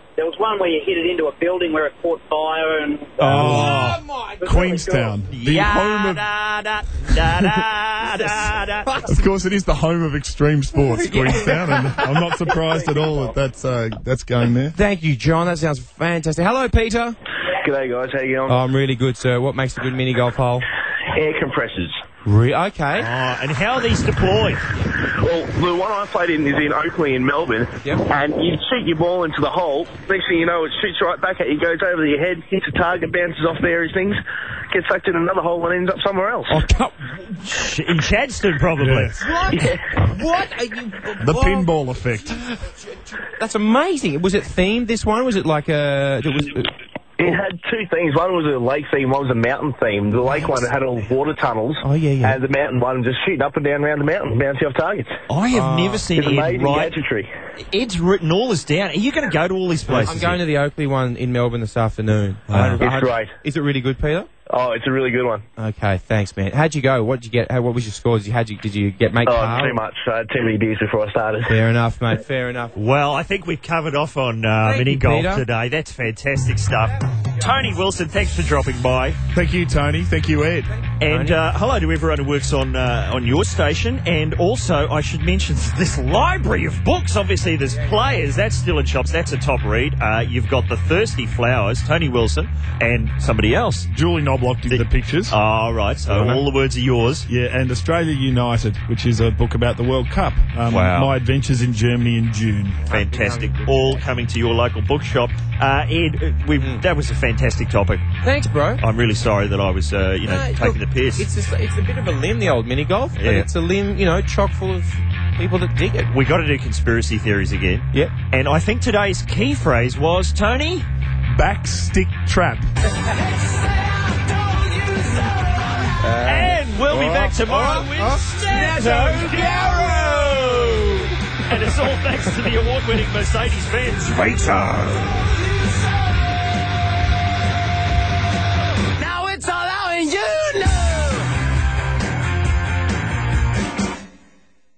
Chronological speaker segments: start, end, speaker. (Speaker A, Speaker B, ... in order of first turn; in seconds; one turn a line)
Speaker A: 0.2-3.2
Speaker B: 3.2-4.7
Speaker C: 3.2-6.3
Speaker D: 3.3-4.0
Speaker A: 4.4-5.2
Speaker D: 5.3-8.9
Speaker B: 8.2-9.1
Speaker C: 9.0-14.8
Speaker B: 10.9-12.6
Speaker B: 14.7-17.2
Speaker E: 17.6-18.6
Speaker B: 18.5-20.7
Speaker E: 21.1-22.0
Speaker B: 22.2-23.1
Speaker D: 23.0-24.7
Speaker E: 25.0-36.6
Speaker B: 36.5-37.0
Speaker D: 37.3-39.2
Speaker C: 38.8-39.2
Speaker B: 39.2-41.7
Speaker C: 41.2-42.4
Speaker B: 42.9-46.7
Speaker E: 47.2-55.1
Speaker B: 51.8-52.4
Speaker D: 55.3-56.9
Speaker B: 55.5-56.0
Speaker E: 56.1-57.3
Speaker D: 57.6-60.4
Speaker B: 59.9-64.3
Speaker D: 62.5-62.8
Speaker E: 62.8-63.3
Speaker E: 64.5-65.4
Speaker B: 65.6-69.8
Speaker E: 69.2-71.5
Speaker B: 71.5-72.8
Speaker D: 72.7-79.2
Speaker B: 74.6-75.4
Speaker B: 77.4-77.8
Speaker C: 79.3-80.7
Speaker B: 80.7-81.4
Speaker D: 81.0-93.9
Speaker B: 87.7-88.2
Speaker C: 93.9-95.4
Speaker D: 94.7-97.2
Speaker B: 96.1-96.4
Speaker C: 97.3-102.8
Speaker D: 100.7-101.1
Speaker B: 102.8-104.0
Speaker D: 102.9-108.1
Speaker B: 106.6-106.8
Speaker B: 108.2-108.8
Speaker D: 108.8-111.3
Speaker B: 110.2-116.1
Speaker D: 113.2-113.5
Speaker D: 116.1-120.9
Speaker C: 121.3-122.7
Speaker F: 123.5-125.3
Speaker B: 126.0-131.1
Speaker D: 126.2-134.3
Speaker B: 134.3-135.0
Speaker F: 139.0-141.3